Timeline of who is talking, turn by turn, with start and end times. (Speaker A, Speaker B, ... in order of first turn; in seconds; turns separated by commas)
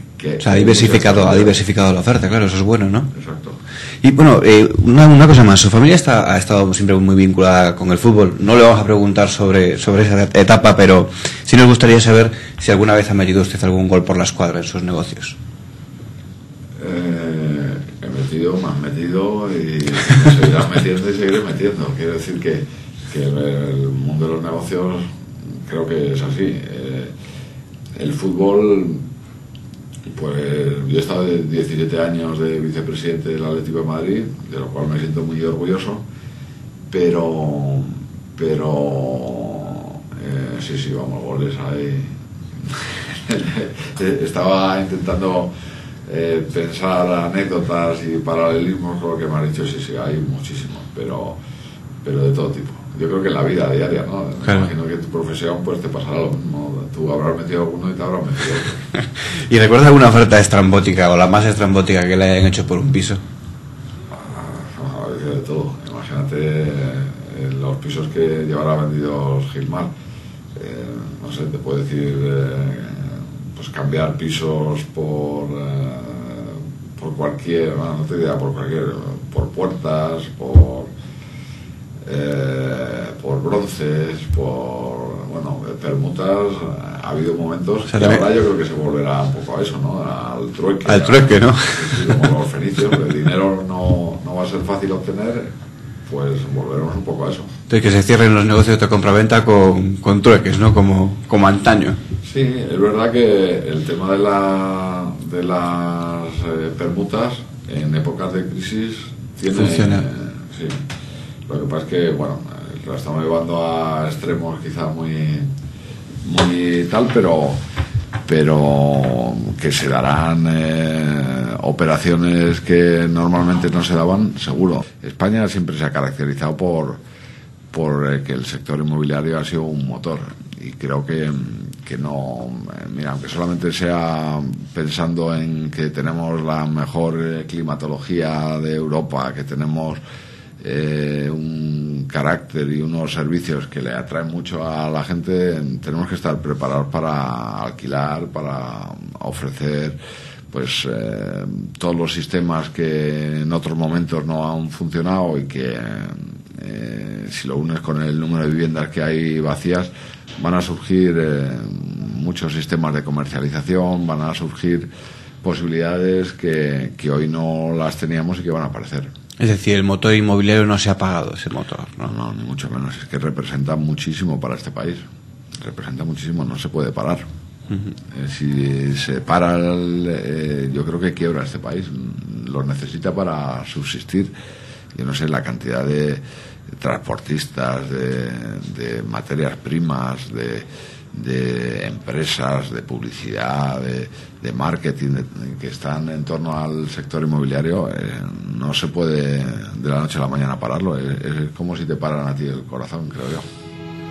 Speaker A: 0.2-1.6, Speaker B: 0.4-3.1, Speaker A: 3.1-3.6, Speaker B: 4.0-15.4, Speaker A: 16.8-27.1, Speaker A: 27.9-29.0, Speaker A: 30.1-36.0, Speaker A: 36.9-45.5, Speaker A: 46.1-51.4, Speaker A: 52.0-58.9, Speaker B: 54.4-54.7, Speaker B: 59.0-63.2, Speaker A: 64.1-69.9, Speaker A: 70.5-80.9, Speaker A: 82.0-95.5, Speaker B: 87.9-88.2, Speaker B: 90.8-92.3, Speaker A: 96.0-97.5, Speaker B: 97.7-102.0, Speaker A: 102.2-110.8, Speaker B: 109.5-110.1, Speaker A: 111.5-115.5, Speaker A: 116.2-117.6, Speaker A: 118.3-127.0, Speaker A: 127.7-140.0, Speaker A: 140.6-150.0, Speaker A: 150.5-164.9, Speaker A: 165.4-169.1, Speaker B: 169.4-172.1, Speaker A: 172.1-175.0, Speaker A: 175.6-177.2, Speaker A: 178.1-184.3, Speaker A: 184.9-203.4